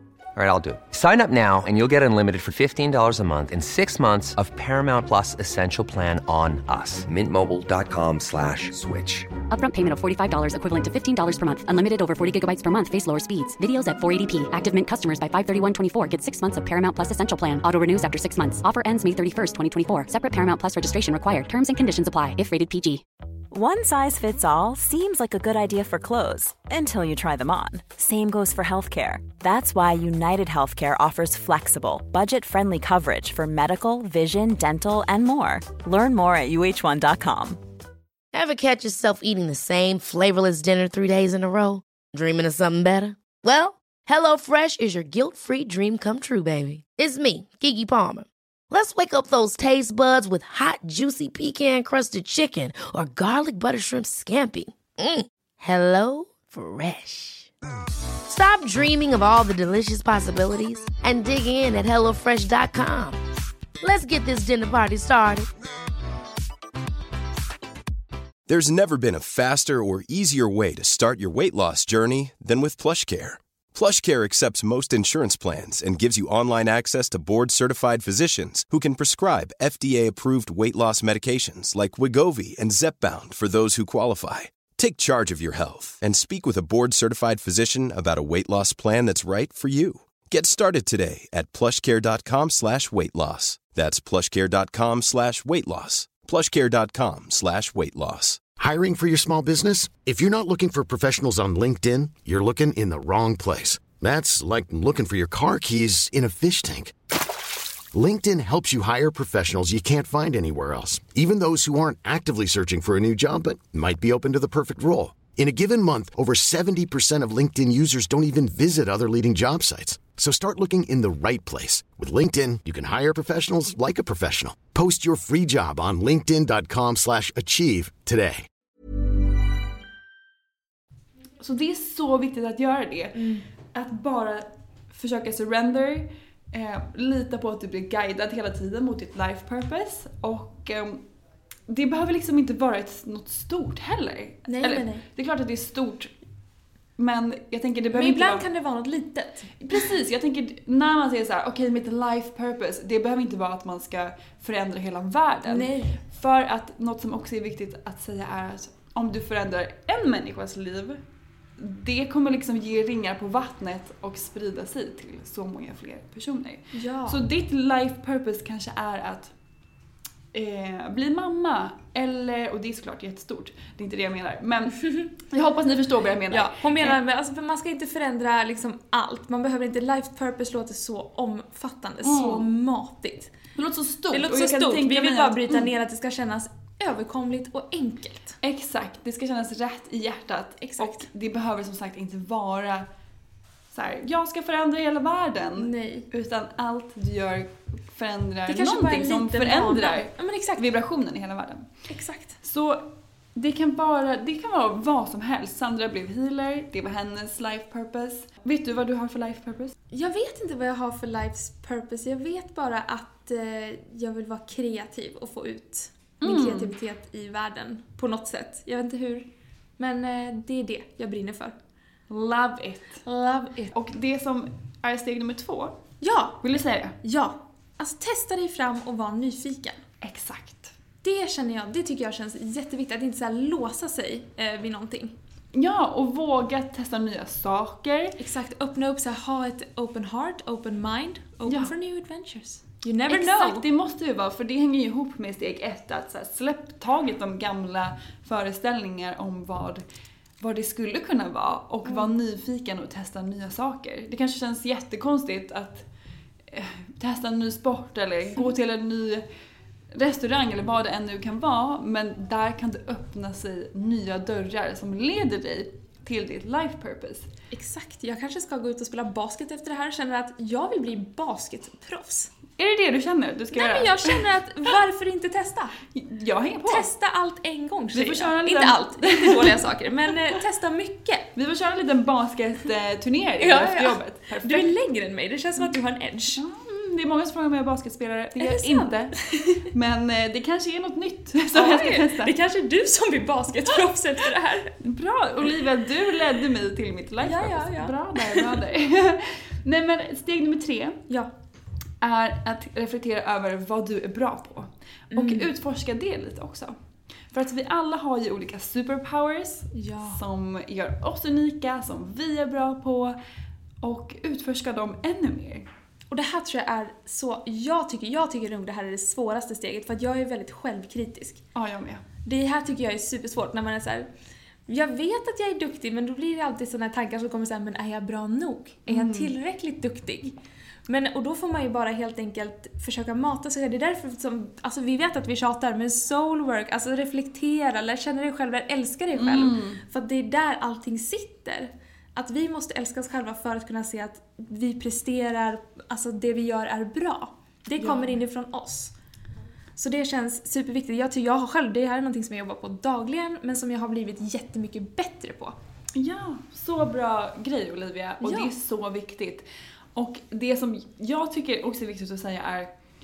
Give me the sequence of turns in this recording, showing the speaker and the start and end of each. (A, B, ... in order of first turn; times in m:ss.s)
0:00.4-0:09.4 A
0:09.5-0:23.0 B
0:23.5-0:37.6 C
0:38.3-0:57.5 D
0:58.3-1:03.2 D
1:03.8-1:05.5 D
1:08.5-1:38.4 E
1:38.6-1:46.9 F
1:47.9-2:08.5 F
2:11.4-2:21.0 G
2:13.1-2:13.4 H
2:21.7-2:26.1 G
2:24.5-2:25.0 H
2:27.0-2:28.4 G
2:27.9-2:29.8 H
2:29.6-2:41.0 G
2:35.5-2:36.0 H
2:41.6-2:49.3 G
2:46.7-2:47.2 H
2:50.3-2:57.0 G
2:56.3-3:03.3 H
3:02.0-3:02.5 G
3:03.5-3:05.7 G
3:04.1-3:08.4 H
3:08.4-3:12.9 G
3:10.6-3:11.0 H
3:13.7-3:21.7 G
3:15.6-3:16.1 H
3:18.5-3:20.6 H
3:21.9-3:22.4 H
3:22.4-3:29.8 G
3:29.9-3:39.3 H
3:36.2-3:36.7 G
3:39.8-3:41.5 H
3:42.1-3:43.0 G
3:43.0-3:43.7 H
3:43.7-3:45.8 G
3:46.0-3:46.4 H
3:46.4-3:47.0 G
3:47.0-3:49.8 H
3:50.0-3:50.7 G
3:51.0-3:55.1 H
3:55.5-3:58.2 G
3:58.2-4:03.6 H
4:01.5-4:01.7 G
4:03.1-4:09.8 G
4:10.4-4:15.8 G
4:11.8-4:12.2 H
4:16.5-4:19.2 G
4:19.9-4:27.3 G
4:27.5-4:32.3 H
4:32.6-4:34.2 G
4:33.5-4:35.8 H
4:35.9-4:36.9 G
4:36.7-4:41.3 H
4:37.9-4:39.7 G
4:41.3-4:44.7 G
4:43.4-4:46.4 H
4:46.3-4:52.3 G
4:48.4-4:49.0 H
4:51.5-4:54.8 H
4:54.8-5:01.0 G
4:57.2-4:58.5 H
5:02.0-5:06.7 G
5:05.1-5:05.5 H
5:07.3-5:13.2 G
5:09.7-5:10.2 H
5:13.8-5:15.7 G
5:16.1-5:21.4 H
5:21.5-5:22.0 G
5:22.2-5:24.1 H
5:24.7-5:48.9 H
5:28.9-5:29.3 G
5:39.1-5:39.8 G
5:47.8-5:48.2 G
5:49.8-5:55.6 H
5:55.9-6:02.7 G
5:58.2-5:58.5 H